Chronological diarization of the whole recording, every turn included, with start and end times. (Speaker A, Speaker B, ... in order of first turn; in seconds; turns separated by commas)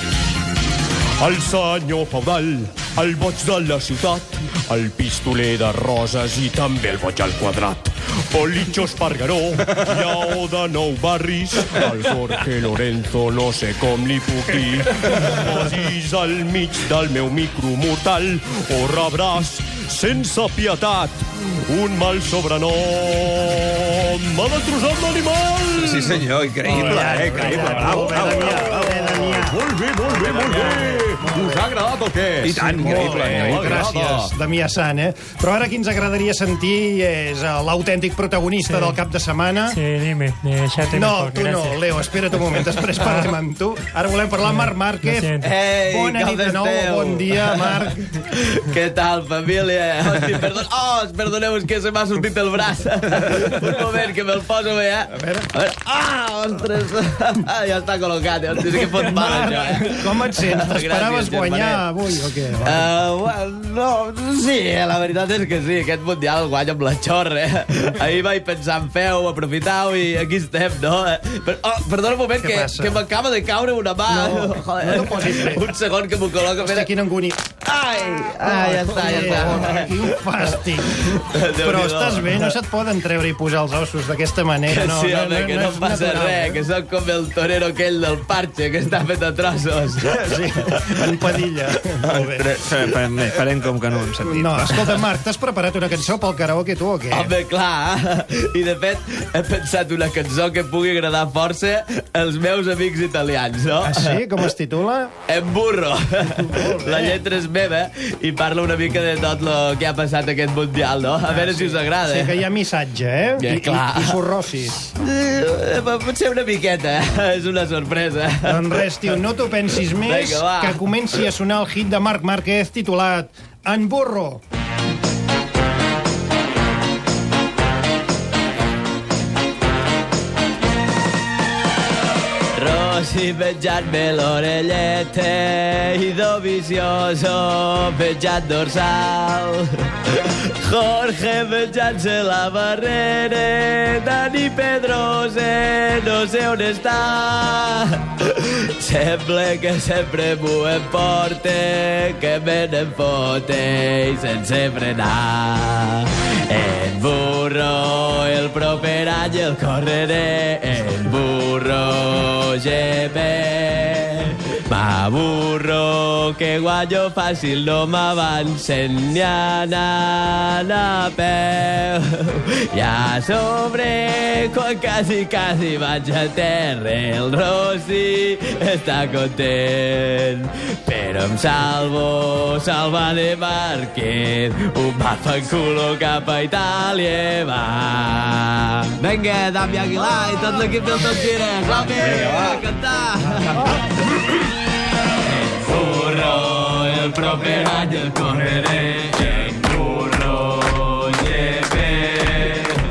Speaker A: 1.2-26.3, Speaker B: 25.8-28.9, Speaker C: 26.6-29.6, Speaker A: 27.6-34.3, Speaker C: 30.2-31.6, Speaker B: 32.4-34.0, Speaker C: 32.6-39.8, Speaker D: 38.7-39.0, Speaker D: 39.7-41.8, Speaker C: 40.9-45.3, Speaker D: 43.0-43.2, Speaker D: 45.0-45.5, Speaker E: 45.4-62.0, Speaker C: 45.9-48.1, Speaker C: 55.1-55.5, Speaker C: 59.0-62.9, Speaker E: 62.5-76.9, Speaker C: 72.4-73.0, Speaker C: 74.1-75.7, Speaker C: 76.5-77.4, Speaker E: 77.6-82.5, Speaker C: 78.4-86.7, Speaker E: 84.7-90.2, Speaker C: 90.0-92.5, Speaker B: 92.1-95.0, Speaker C: 94.2-97.3, Speaker E: 97.1-104.3, Speaker C: 103.8-105.1, Speaker E: 105.3-112.4, Speaker C: 106.4-107.2, Speaker C: 111.3-114.8, Speaker E: 113.4-114.2, Speaker E: 115.0-119.1, Speaker C: 118.4-124.4, Speaker E: 119.9-120.8, Speaker E: 132.6-193.7, Speaker B: 191.8-192.6, Speaker E: 195.2-202.7